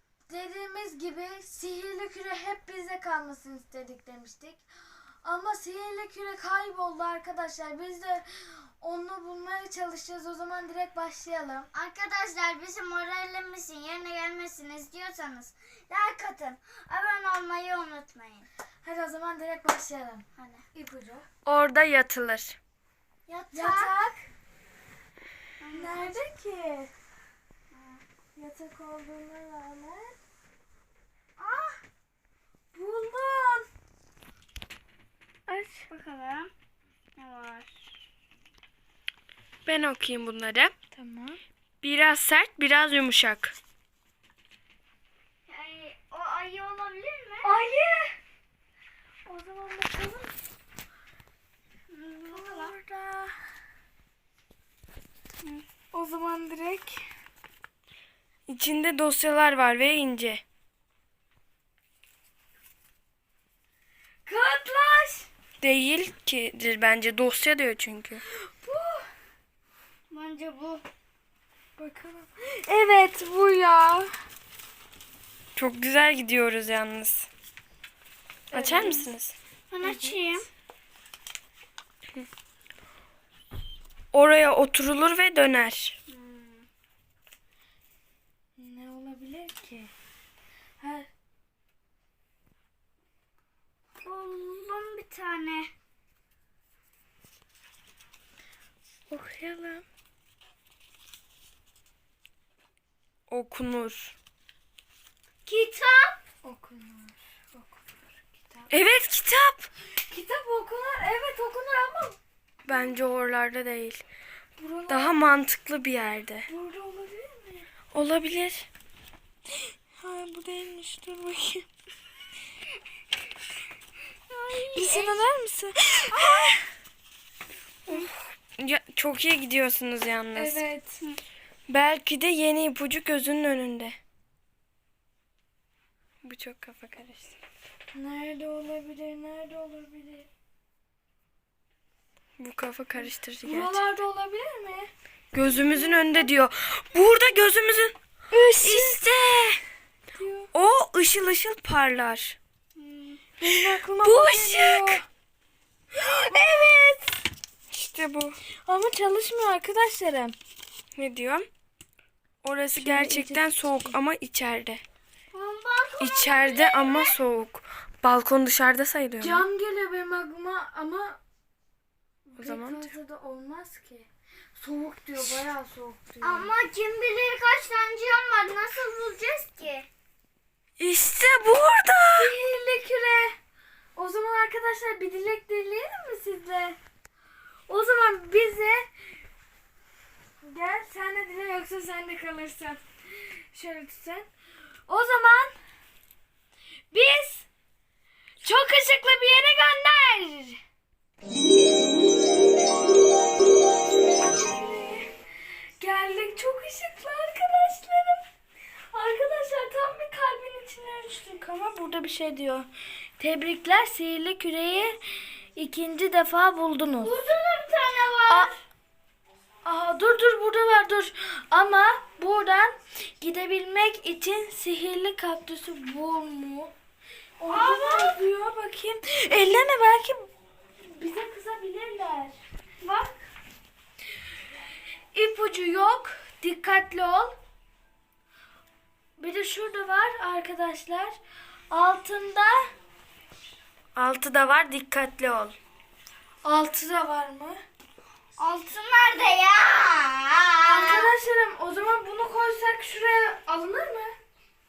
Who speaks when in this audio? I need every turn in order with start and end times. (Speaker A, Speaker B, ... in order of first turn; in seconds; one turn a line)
Speaker A: 0.3-4.6
Speaker A: 5.2-11.7
Speaker B: 11.7-18.5
Speaker A: 18.8-21.2
Speaker B: 20.4-20.6
Speaker C: 21.4-22.6
Speaker B: 23.3-23.9
Speaker A: 23.5-24.3
Speaker B: 25.6-26.1
Speaker A: 25.7-26.9
Speaker B: 27.7-28.0
Speaker A: 28.4-30.2
Speaker B: 31.4-31.8
Speaker A: 32.7-33.6
Speaker A: 35.5-35.8
Speaker B: 35.9-36.5
Speaker B: 37.2-37.7
Speaker C: 39.6-40.7
Speaker A: 40.9-41.4
Speaker C: 41.8-43.5
Speaker B: 45.5-47.5
Speaker A: 47.4-48.1
Speaker A: 49.3-50.4
Speaker B: 51.9-52.8
Speaker A: 52.3-53.3
Speaker A: 55.9-57.0
Speaker C: 58.5-60.4
Speaker A: 64.2-65.3
Speaker C: 65.6-68.2
Speaker A: 68.4-69.1
Speaker B: 70.1-70.8
Speaker A: 71.8-74.1
Speaker C: 75.5-77.3
Speaker C: 78.5-79.3
Speaker B: 78.5-79.1
Speaker A: 78.6-78.9
Speaker B: 79.7-80.5
Speaker A: 79.8-80.2
Speaker C: 84.1-86.0
Speaker B: 86.1-86.7
Speaker A: 88.6-89.9
Speaker A: 90.8-91.1
Speaker B: 94.0-95.7
Speaker A: 99.1-99.8
Speaker C: 103.3-104.1
Speaker B: 105.5-106.2
Speaker A: 106.4-108.7
Speaker C: 108.7-109.7
Speaker A: 110.1-112.2
Speaker C: 112.7-114.0
Speaker A: 114.6-115.3
Speaker C: 114.9-116.5
Speaker A: 116.5-117.7
Speaker C: 117.9-118.7
Speaker A: 120.0-121.7
Speaker B: 124.3-125.2
Speaker A: 124.7-126.6
Speaker B: 126.1-126.5
Speaker C: 127.9-130.6
Speaker A: 130.3-131.0
Speaker C: 131.7-133.9
Speaker C: 136.2-137.4
Speaker A: 137.9-140.3
Speaker C: 142.4-143.8
Speaker A: 143.0-146.3
Speaker C: 145.3-148.0
Speaker A: 148.3-149.0
Speaker C: 148.6-149.6
Speaker A: 150.1-150.5
Speaker C: 150.5-152.4
Speaker B: 152.8-153.2
Speaker A: 153.4-155.1
Speaker C: 153.4-155.0
Speaker A: 155.9-157.1
Speaker C: 157.7-158.4
Speaker A: 158.6-160.3
Speaker C: 160.9-161.5
Speaker C: 162.4-164.8
Speaker A: 162.8-163.9
Speaker B: 165.3-167.2
Speaker C: 166.0-169.4
Speaker A: 169.2-171.2
Speaker A: 172.3-176.5
Speaker C: 172.4-172.9
Speaker B: 176.2-179.9
Speaker C: 180.8-182.3
Speaker A: 182.1-183.3
Speaker A: 183.9-186.8
Speaker A: 187.7-188.9
Speaker A: 190.4-194.3
Speaker A: 194.9-195.5
Speaker A: 196.9-197.5
Speaker A: 198.4-200.6
Speaker A: 204.2-205.1
Speaker A: 205.8-208.2
Speaker A: 208.9-212.7
Speaker A: 213.2-215.0
Speaker A: 215.6-217.1
Speaker B: 217.0-218.5
Speaker A: 219.6-226.7
Speaker A: 227.4-230.3
Speaker B: 227.5-228.2
Speaker A: 230.8-232.3
Speaker B: 232.8-233.1
Speaker A: 235.1-237.3
Speaker A: 239.2-241.2
Speaker A: 241.7-242.6
Speaker C: 243.9-245.5
Speaker A: 246.4-247.6
Speaker B: 248.4-251.1
Speaker A: 250.6-254.1